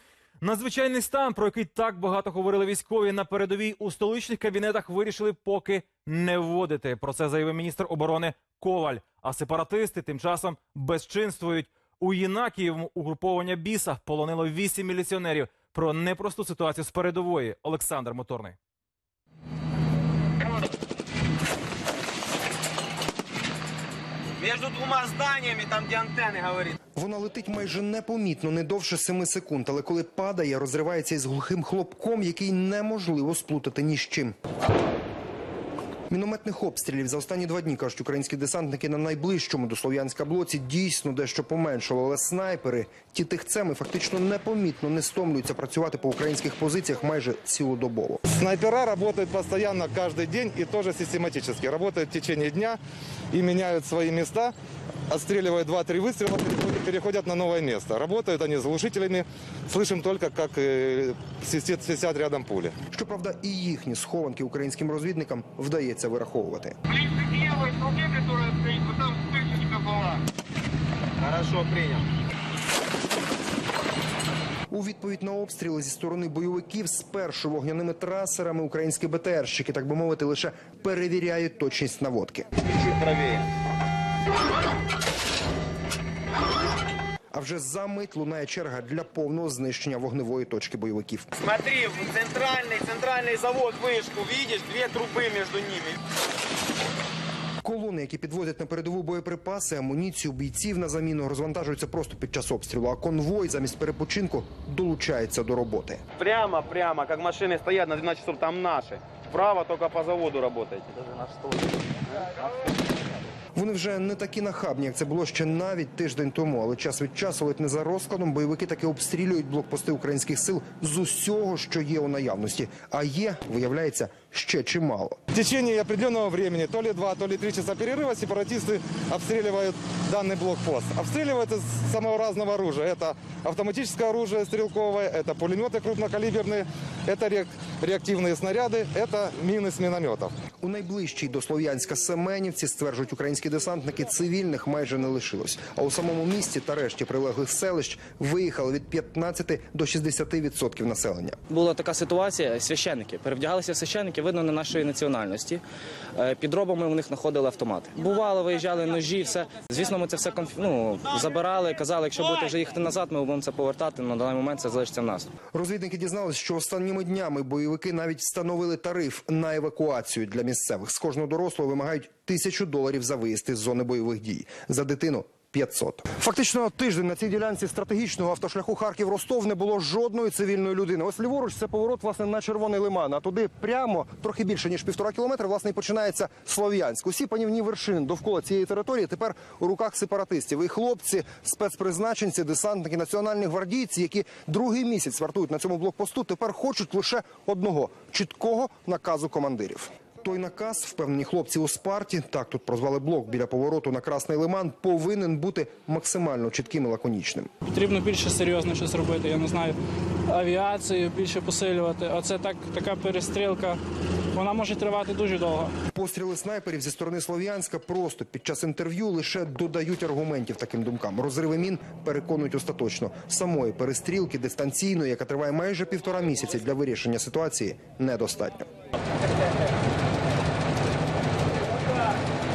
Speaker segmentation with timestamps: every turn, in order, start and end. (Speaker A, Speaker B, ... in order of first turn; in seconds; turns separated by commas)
Speaker A: 0.4-18.6, Speaker B: 24.4-26.8, Speaker C: 26.9-34.3, Speaker C: 36.1-48.2, Speaker D: 48.3-52.8, Speaker D: 53.3-54.5, Speaker D: 55.1-62.8, Speaker C: 62.9-66.8, Speaker B: 66.9-70.2, Speaker B: 71.2-72.1, Speaker C: 74.7-82.5, Speaker B: 82.6-83.5, Speaker C: 87.3-91.3, Speaker B: 91.4-96.0, Speaker C: 97.6-106.0, Speaker B: 106.2-111.0, Speaker B: 112.1-112.5, Speaker C: 113.5-125.2, Speaker D: 125.3-140.3, Speaker C: 140.6-151.4, Speaker E: 151.5-155.6, Speaker E: 156.2-165.3, Speaker C: 165.5-207.5, Speaker F: 207.7-209.8, Speaker F: 210.3-213.8, Speaker F: 214.3-215.7, Speaker C: 215.9-228.7